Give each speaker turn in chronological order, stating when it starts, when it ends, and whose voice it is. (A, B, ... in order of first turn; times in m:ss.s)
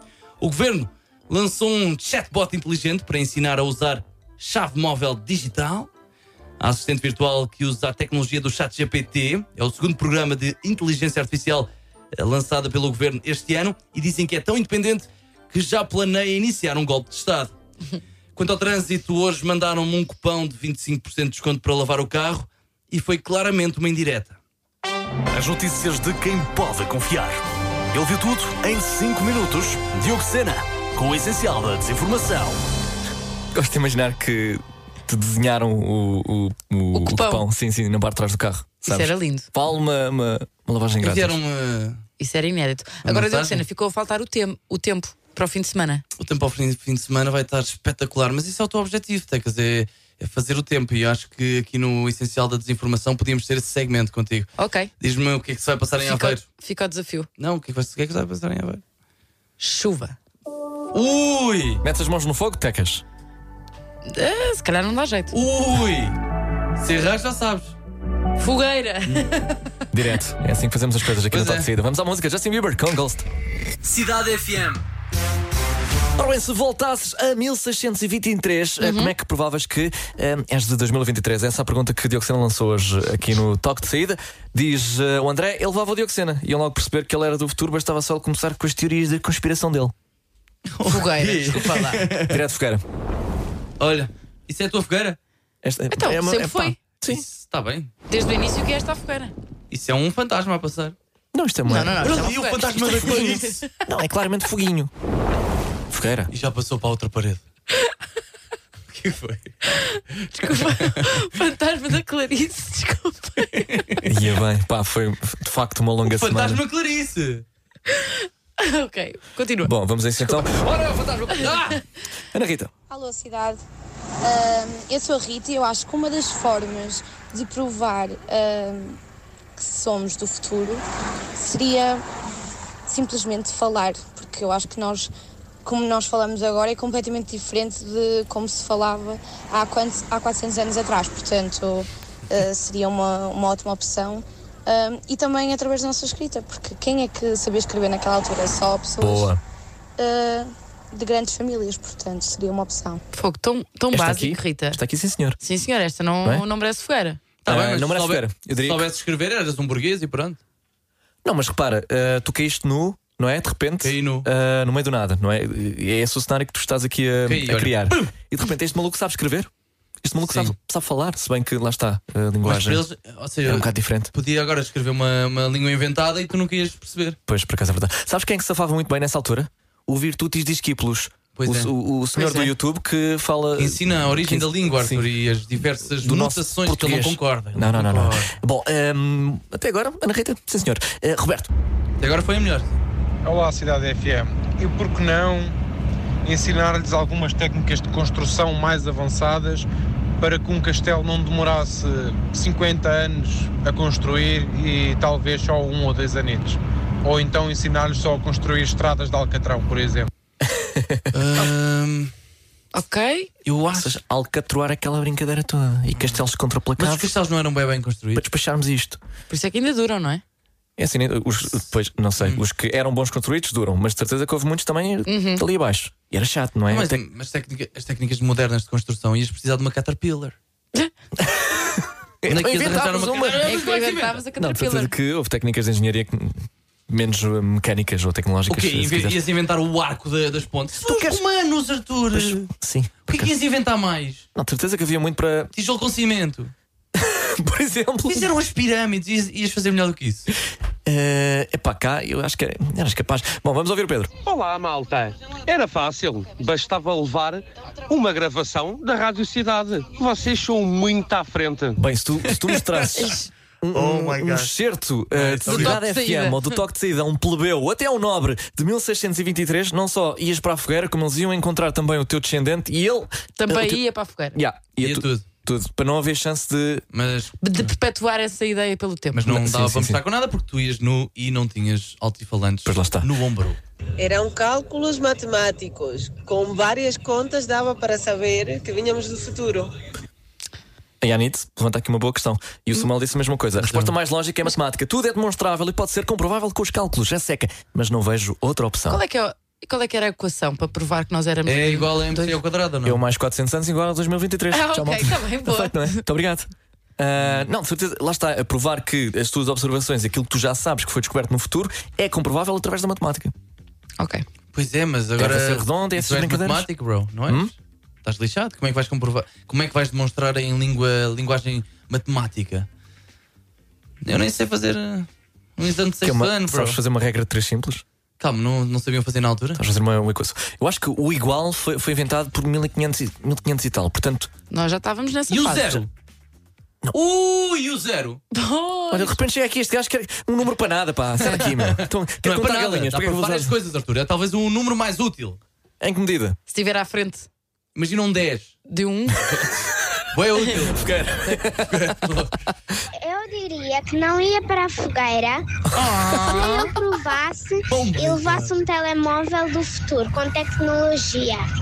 0:00.4-0:05.9 A
0:06.6-0:17.5 A
0:18.3-0:24.4 A
0:25.3-0:27.4 B
0:27.9-0:32.6 B
0:33.5-0:41.4 C
0:36.9-0:37.4 D
0:38.8-0:39.5 D
0:41.0-0:42.0 A
0:42.2-0:46.0 D
0:43.0-0:43.6 A
0:46.2-0:56.4 A
0:54.6-0:54.9 D
0:56.0-0:57.3 D
0:57.4-0:58.8 A
0:59.6-1:00.2 D
1:00.9-1:01.8 A
1:01.8-1:03.0 C
1:04.0-1:05.3 D
1:05.3-1:06.2 A
1:06.8-1:07.8 A
1:08.4-1:09.5 D
1:09.9-1:13.2 C
1:11.3-1:11.7 A
1:13.8-1:14.8 B
1:16.2-1:29.9 C
1:18.8-1:19.1 D
1:30.7-1:32.4 A
1:30.8-1:32.0 D
1:32.3-1:32.8 C
1:33.8-1:35.2 A
1:35.6-1:37.2 C
1:35.9-1:36.8 D
1:37.0-1:37.9 A
1:38.1-1:39.3 D
1:39.7-1:41.0 A
1:41.3-1:42.2 C
1:41.7-1:43.5 D
1:42.0-1:43.6 A
1:43.3-1:44.9 C
1:45.9-1:46.3 C
1:46.3-1:47.4 A
1:48.9-1:49.5 A
1:49.7-1:54.0 D
1:50.5-1:51.1 A
1:53.7-1:54.0 A
1:54.0-1:56.6 C
1:56.0-1:57.4 A
1:57.9-1:59.7 D
1:59.6-2:01.7 C
2:01.4-2:01.8 A
2:02.3-2:02.7 C
2:02.9-2:03.6 E
2:04.2-2:09.0 E
2:09.6-2:10.8 E
2:11.4-2:12.0 E
2:12.9-2:15.1 E
2:15.6-2:29.3 E
2:29.0-2:29.4 C
2:30.0-2:33.0 E
2:33.1-2:34.8 D
2:33.9-2:35.4 C
2:35.4-2:37.2 D
2:37.4-2:40.4 A
2:37.5-2:38.8 C
2:41.2-2:49.5 C
2:43.8-2:44.2 A
2:47.2-2:48.1 A
2:50.0-2:52.8 C
2:50.2-2:50.5 A
2:52.4-2:57.2 A
2:53.4-2:54.1 C
2:57.3-3:05.0 C
3:01.4-3:01.7 A
3:02.1-3:02.5 D
3:03.6-3:08.3 A
3:06.0-3:11.5 C
3:12.0-3:12.8 A
3:13.2-3:15.5 F
3:16.2-3:19.7 F
3:20.2-3:30.1 F
3:30.5-3:31.1 C
3:31.1-3:32.1 A
3:32.7-3:33.3 D
3:33.4-3:34.0 A
3:33.7-3:37.1 C
3:36.0-3:36.2 A
3:36.8-3:38.2 A
3:38.1-3:39.0 C
3:39.3-3:40.2 D
3:40.8-3:47.0 C
3:45.1-3:45.4 D
3:46.7-3:50.4 A
3:51.2-3:53.7 C
3:52.3-3:54.2 A
3:53.3-3:54.9 D
3:54.4-3:59.2 C
3:58.5-4:02.5 A
4:00.7-4:01.2 C
4:02.1-4:03.3 C
4:03.1-4:04.2 A
4:04.3-4:05.5 C
4:05.5-4:06.5 A
4:06.9-4:08.3 C
4:08.1-4:10.3 A
4:10.8-4:14.1 C
4:14.2-4:21.8 G
4:21.8-4:33.8 C
4:23.0-4:23.3 D
4:23.8-4:24.4 G
4:25.1-4:25.8 A
4:25.5-4:26.6 D
4:33.4-4:34.4 D
4:34.3-4:36.8 C
4:34.8-4:35.2 A
4:36.9-4:37.4 A
4:37.4-4:39.2 D
4:39.1-4:43.6 A
4:39.2-4:40.0 C
4:42.6-4:43.1 C
4:44.0-4:49.7 H
4:51.0-4:59.0 C
4:53.6-4:53.9 A
4:58.9-5:02.4 D
5:01.4-5:03.0 A
5:02.8-5:13.3 C
5:04.5-5:06.0 D
5:14.0-5:14.2 D
5:14.5-5:22.7 A
5:15.2-5:16.7 C
5:24.0-5:26.8 A
5:26.0-5:27.8 C
5:28.2-5:29.6 A
5:29.6-5:34.3 C
5:34.5-5:35.8 D
5:35.3-5:35.9 A
5:36.9-5:38.2 A
5:38.3-5:39.2 D
5:38.9-5:43.5 C
5:41.4-5:45.4 A
5:45.8-5:46.4 C
5:46.5-5:47.3 D
5:47.7-5:48.6 A
5:48.7-5:49.2 D
5:50.1-5:51.0 A
5:50.6-5:51.9 C
5:51.6-5:52.3 A
5:52.9-5:55.4 I
5:55.7-5:56.7 D
5:56.3-6:01.4 I
5:57.7-5:58.5 A